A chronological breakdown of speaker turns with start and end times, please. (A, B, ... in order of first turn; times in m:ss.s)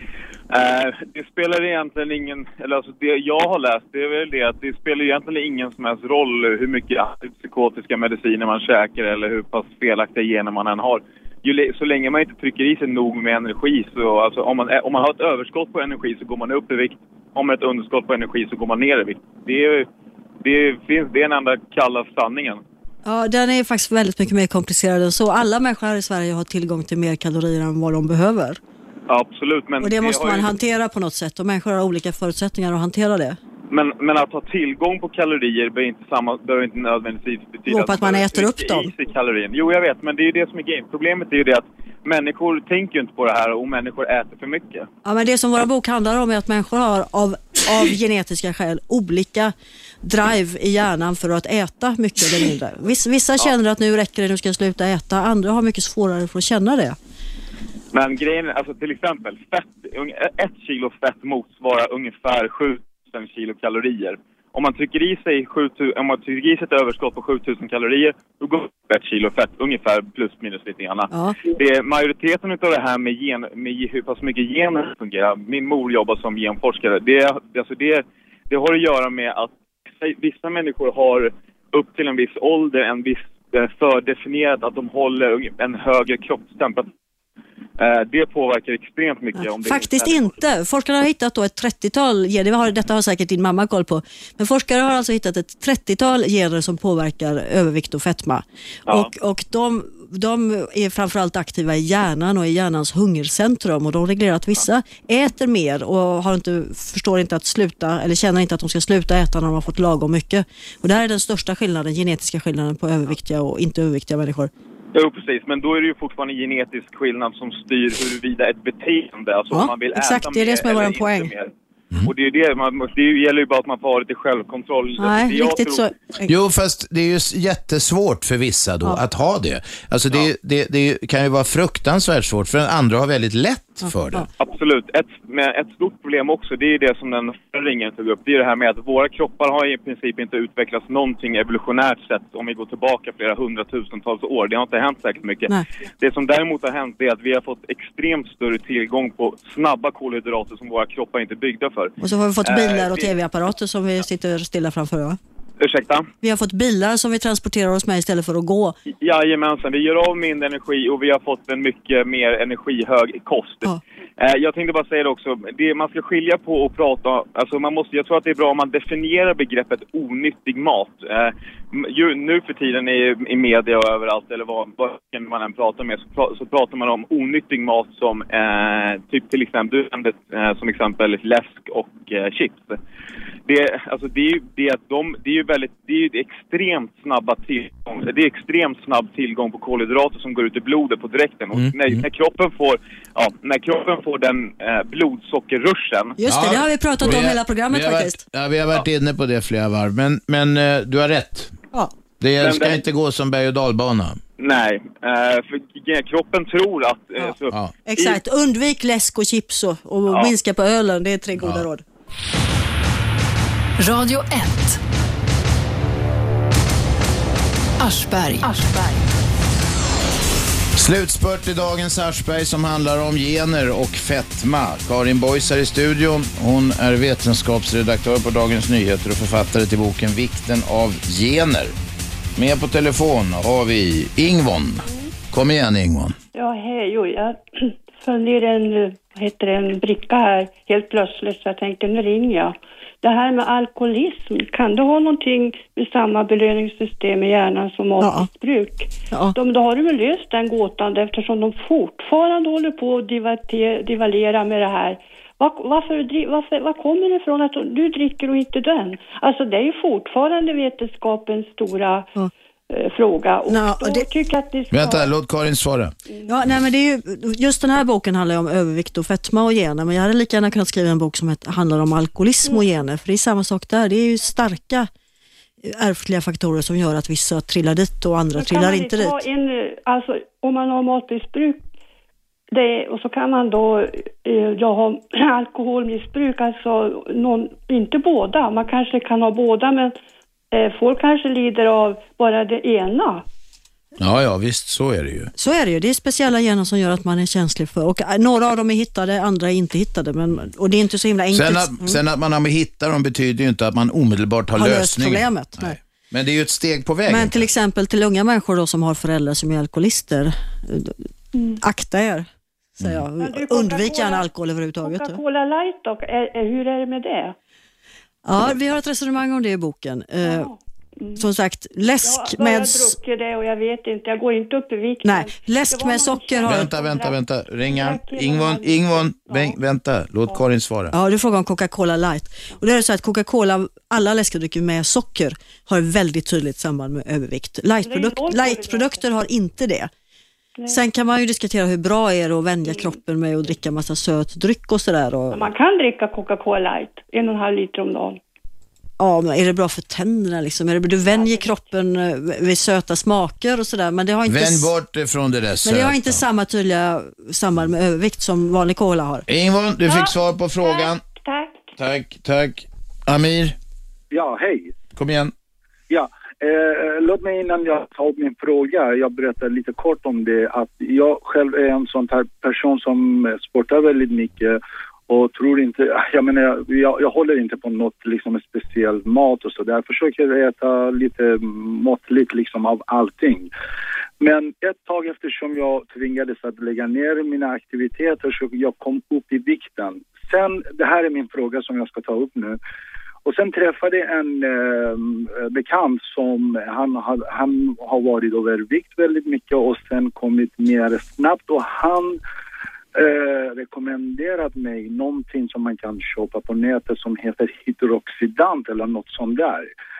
0:00.5-0:19.9 A
0:20.4-0:22.6 A
0:23.0-0:28.6 B
0:29.1-0:30.5 A
0:29.8-0:33.4 B
0:33.7-0:44.9 A
0:37.7-0:38.9 B
0:45.0-0:57.0 B
0:57.9-1:26.9 A
1:11.1-1:11.4 B
1:27.8-1:30.4 A
1:29.4-1:54.5 B
1:54.9-2:01.5 A
1:59.5-2:01.3 B
2:02.0-2:05.9 A
2:05.0-2:06.3 B
2:06.3-2:14.3 C
2:13.8-2:14.3 B
2:14.4-2:33.1 A
2:32.0-2:35.2 B
2:35.6-2:36.1 A
2:36.2-2:38.8 B
2:39.0-3:02.8 A
3:03.5-3:16.2 A
3:11.5-3:12.0 C
3:16.2-3:18.2 B
3:16.3-3:21.6 C
3:22.2-3:24.2 C
3:22.4-3:22.8 A
3:24.4-3:28.2 A
3:27.8-3:31.8 B
3:30.1-3:30.3 A
3:31.4-3:31.7 C
3:33.8-3:34.8 D
3:37.8-3:40.1 D
3:40.8-3:51.7 C
3:52.4-3:56.2 C
3:54.8-3:55.1 E
3:56.3-4:22.1 E
4:08.0-4:08.3 B
4:09.1-4:09.4 B
4:22.7-4:25.1 E
4:23.4-4:24.1 B
4:24.7-4:25.9 C
4:26.3-4:34.9 B
4:32.4-4:32.7 E
4:35.6-4:39.2 B
4:38.3-4:41.6 E
4:42.5-4:50.0 E
4:50.5-4:53.3 E
4:54.0-4:55.3 C
4:55.4-5:02.0 B
5:01.3-5:07.5 C
5:04.5-5:05.8 B
5:07.1-5:11.1 B
5:11.6-5:15.2 B
5:12.8-5:13.1 C
5:13.2-5:17.4 E
5:18.2-5:20.5 B
5:20.2-5:21.3 E
5:21.2-5:23.0 B
5:22.0-5:29.6 E
5:25.0-5:26.7 B
5:26.4-5:30.9 C
5:30.9-5:39.9 B
5:37.8-5:39.1 E
5:40.6-5:40.9 E
5:40.7-5:45.5 B
5:42.6-5:43.0 E
5:45.3-5:48.2 E
5:49.0-5:54.7 B
5:51.1-5:51.7 E
5:54.3-5:56.2 C
5:55.6-5:59.2 B
5:59.3-6:01.0 C
5:59.8-6:01.7 E
6:01.8-6:03.6 C
6:04.1-6:04.7 F
6:05.0-6:05.3 C
6:05.9-6:14.6 F
6:15.1-6:23.5 F
6:24.2-6:32.6 F
6:33.2-6:42.2 F
6:43.0-6:49.7 F